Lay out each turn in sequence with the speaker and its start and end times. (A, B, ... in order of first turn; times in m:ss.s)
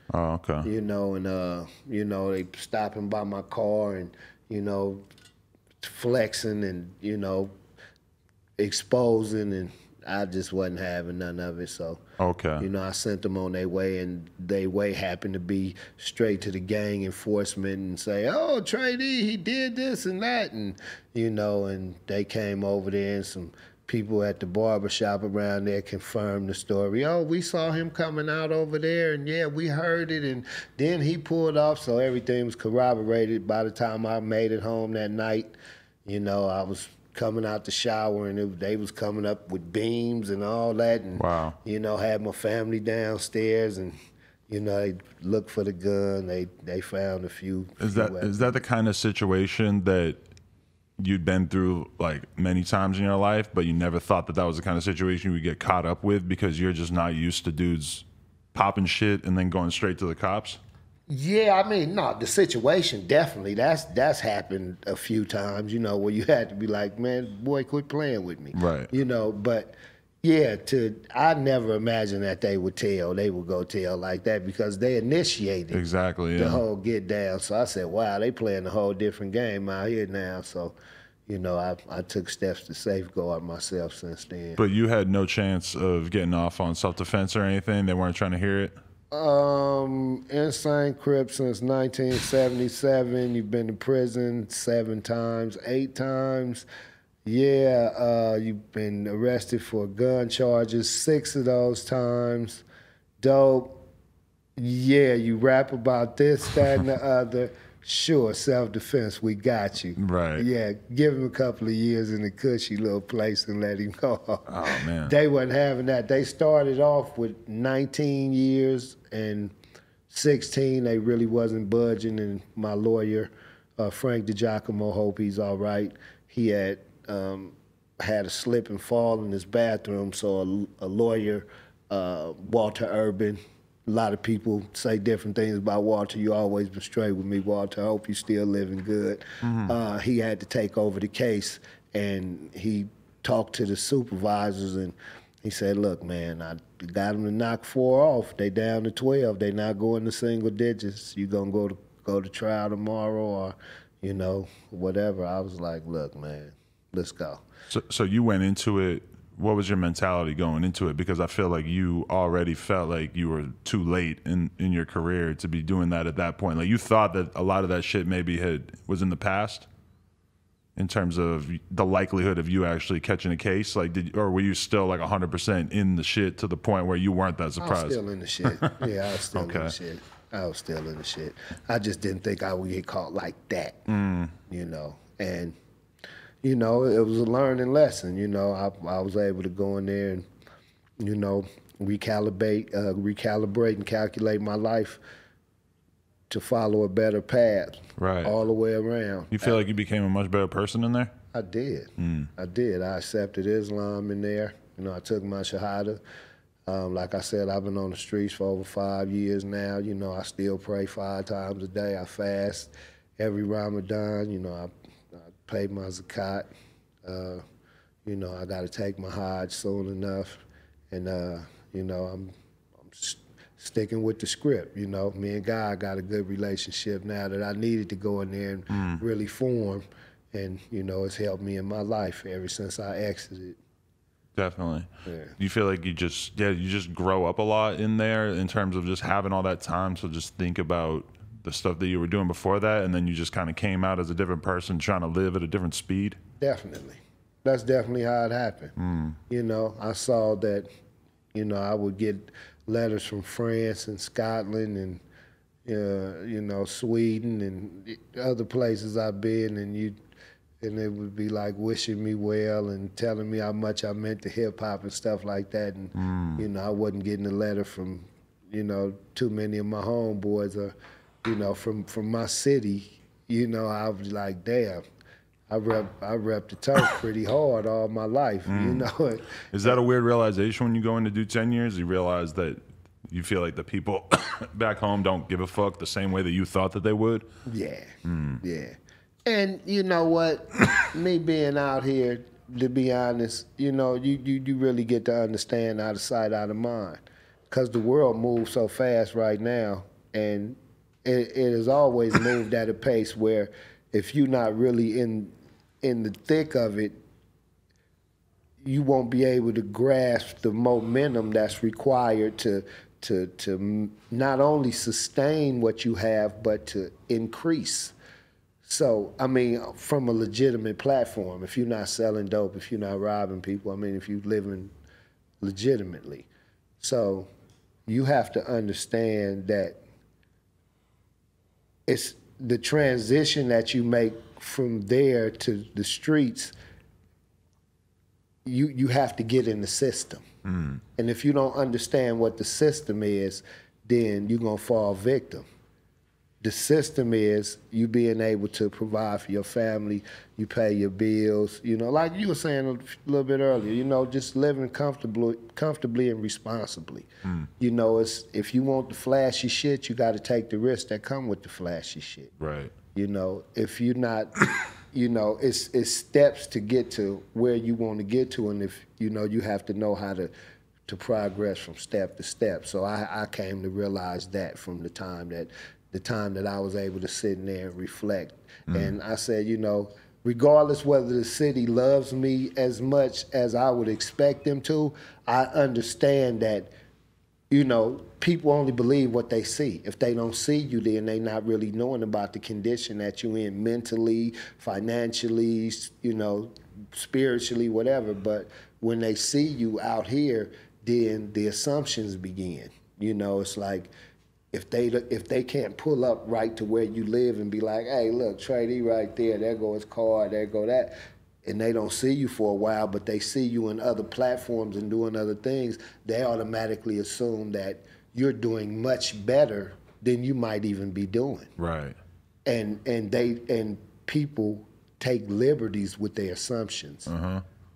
0:00.1-0:00.7 A
0:00.6-0:05.0 B
0:05.8-0:07.5 B
0:08.6-0:12.0 B
0:12.2-0:12.6 A
0:12.6-0:35.5 B
0:36.0-0:44.0 B
0:41.2-0:41.6 A
0:44.5-0:48.6 B
0:47.8-0:50.2 A
0:51.0-1:00.6 A
1:01.1-1:15.8 B
1:08.5-1:08.9 A
1:15.7-1:16.6 A
1:16.4-1:20.8 B
1:21.3-1:24.6 B
1:24.6-1:28.8 A
1:29.1-1:36.7 B
1:37.3-1:42.6 B
1:43.2-1:43.8 B
1:44.6-1:59.5 B
1:50.0-1:50.5 A
1:54.5-1:55.2 A
2:00.1-2:37.4 B
2:19.4-2:19.8 A
2:37.7-2:49.7 A
2:50.8-2:58.8 A
2:57.6-3:03.8 B
2:59.3-2:59.8 A
3:03.9-3:04.3 A
3:04.5-3:05.6 B
3:06.4-3:10.3 B
3:11.0-3:15.0 B
3:16.3-3:19.6 B
3:18.0-3:18.3 A
3:19.3-3:21.1 A
3:21.3-3:26.0 B
3:22.0-3:22.3 A
3:26.7-3:34.7 B
3:35.2-3:36.5 B
3:37.0-3:37.4 B
3:38.0-3:42.3 B
3:42.8-3:53.6 B
3:48.7-3:49.0 A
3:54.4-4:06.2 A
3:55.1-3:55.4 B
4:06.4-4:08.8 B
4:08.8-4:09.2 A
4:09.3-4:10.7 B
4:11.3-4:15.0 B
4:15.6-4:20.0 B
4:20.6-4:34.8 B
4:26.0-4:26.4 A
4:35.5-4:39.8 B
4:38.5-4:38.9 A
4:39.5-4:47.3 A
4:47.5-5:05.3 B
4:48.0-4:48.4 A
5:05.8-5:07.0 B
5:08.6-5:17.9 B
5:18.6-5:24.7 B
5:25.4-5:26.3 B
5:26.8-5:27.3 B
5:27.9-5:29.8 B
5:31.9-5:36.5 B
5:38.4-5:40.2 B
5:40.4-5:40.8 A
5:41.0-5:45.4 B
5:46.4-5:57.1 B
5:57.6-6:02.3 B
6:02.4-6:02.7 A
6:02.9-6:10.3 B
6:10.9-6:26.7 B
6:27.5-6:43.9 B
6:44.5-6:50.9 B
6:51.4-7:01.5 B
7:01.6-7:02.0 A
7:02.5-7:07.1 B
7:07.1-7:07.4 A